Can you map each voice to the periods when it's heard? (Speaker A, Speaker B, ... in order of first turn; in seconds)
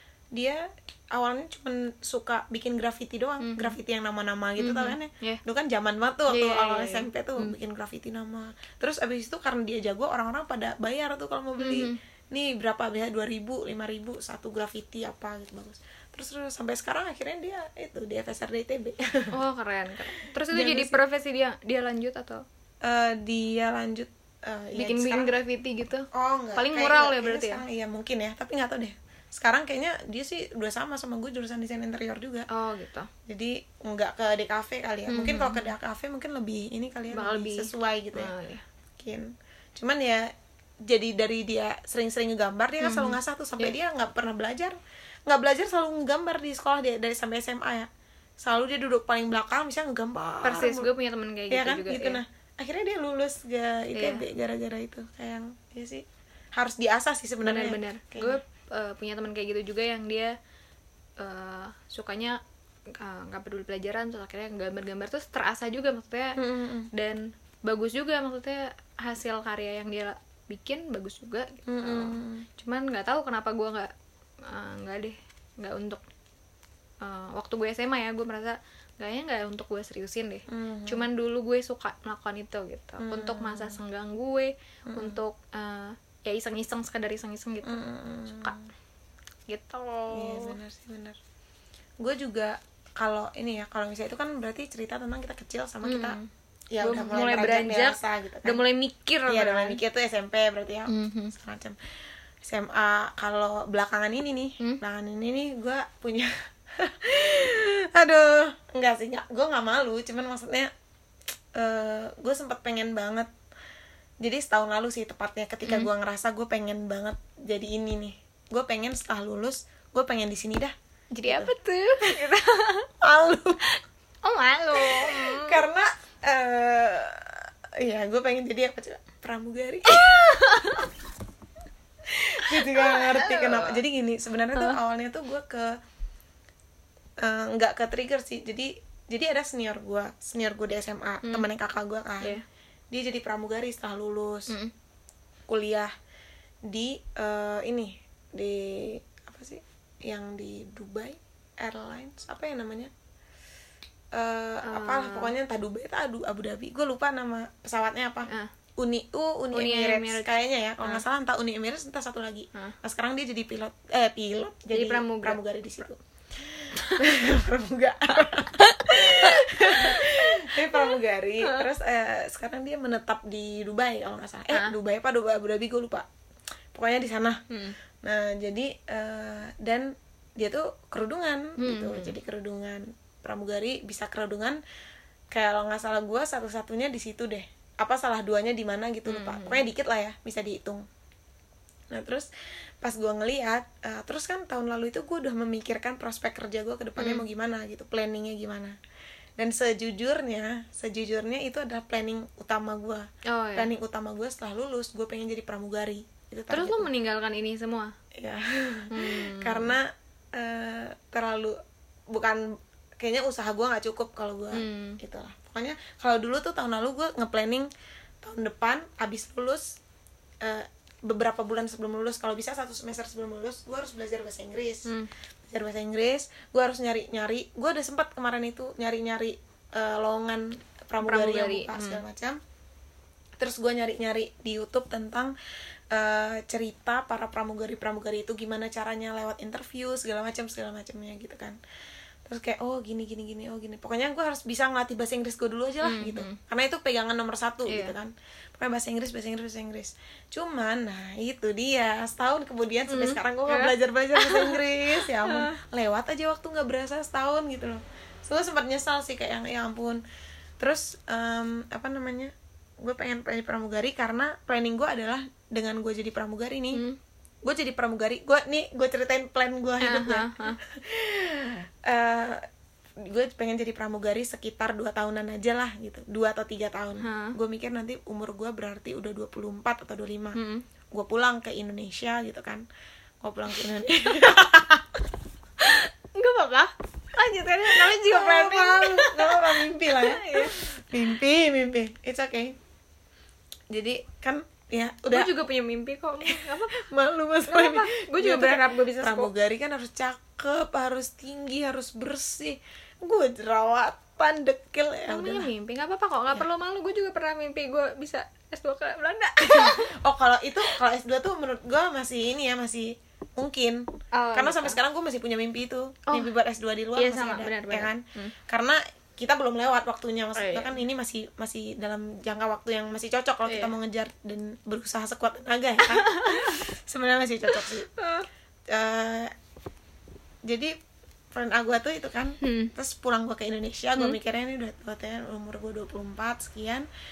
Speaker A: 0.3-19.3, 20.5-21.0, 22.8-25.3, 26.1-32.5, 33.3-38.3, 39.0-40.3, 40.8-47.9, 48.4-50.9, 51.5-58.4, 66.4-66.9, 71.7-72.5, 80.5-81.0, 83.0-83.8, 84.9-85.2, 87.6-88.7, 90.1-91.2, 92.0-96.2, 96.7-98.6, 99.3-101.8, 102.4-110.7, 111.5-113.3, 114.2-121.5, 123.0-123.6, 124.7-130.4, 132.1-135.7, 137.2-142.4, 142.9-144.5, 145.5-145.9, 146.7-152.9, 154.1-176.1, 176.7-177.4, 178.0-184.6, 185.3-190.8, 191.9-192.3, 192.8-198.8, 199.4-206.9, 208.1-211.6, 212.1-217.7, 218.2-219.8, 220.4-224.9, 225.5-232.4, 233.4-235.3, 235.9-241.6, 242.2-260.0, 260.6-266.8, 267.4-272.4, 273.0-280.4, 280.9-282.6, 283.2-285.0, 287.6-292.6, 293.7-295.3, 296.3-305.5, 309.4-327.9, 328.7-329.3, 330.4-330.7, 331.3-336.9
Speaker B: 3.4-3.7, 4.6-5.4, 6.3-7.5, 11.6-11.9, 19.3-22.4, 24.8-27.6, 32.5-33.1, 35.1-35.7, 37.1-38.6, 42.8-43.7, 50.4-52.2, 53.9-54.2, 57.4-60.3, 61.2-62.4, 63.0-66.4, 66.9-73.9, 74.4-76.0, 77.0-87.8, 89.5-90.5, 95.8-96.3, 96.8-99.8, 100.9-101.3, 115.6-115.9, 121.2-122.9, 123.7-125.6, 129.9-130.9, 132.4-133.8, 154.6-155.3, 159.5-161.0, 164.7-165.4, 166.8-167.0, 168.6-171.7, 177.5-177.7, 181.6-182.1, 189.1-189.6, 197.0-197.2, 203.2-203.7, 206.5-207.9, 208.9-209.7, 214.5-215.0, 231.0-232.0, 245.8-246.4, 247.7-247.9, 252.9-255.5, 266.7-267.0, 269.8-270.6, 277.0-277.4, 280.3-280.6, 285.6-290.6, 295.1-296.8, 297.5-299.3, 305.1-309.9, 314.1-314.8, 316.9-318.3, 320.3-320.8, 323.4-323.7, 325.8-326.6, 327.5-328.2, 332.4-332.7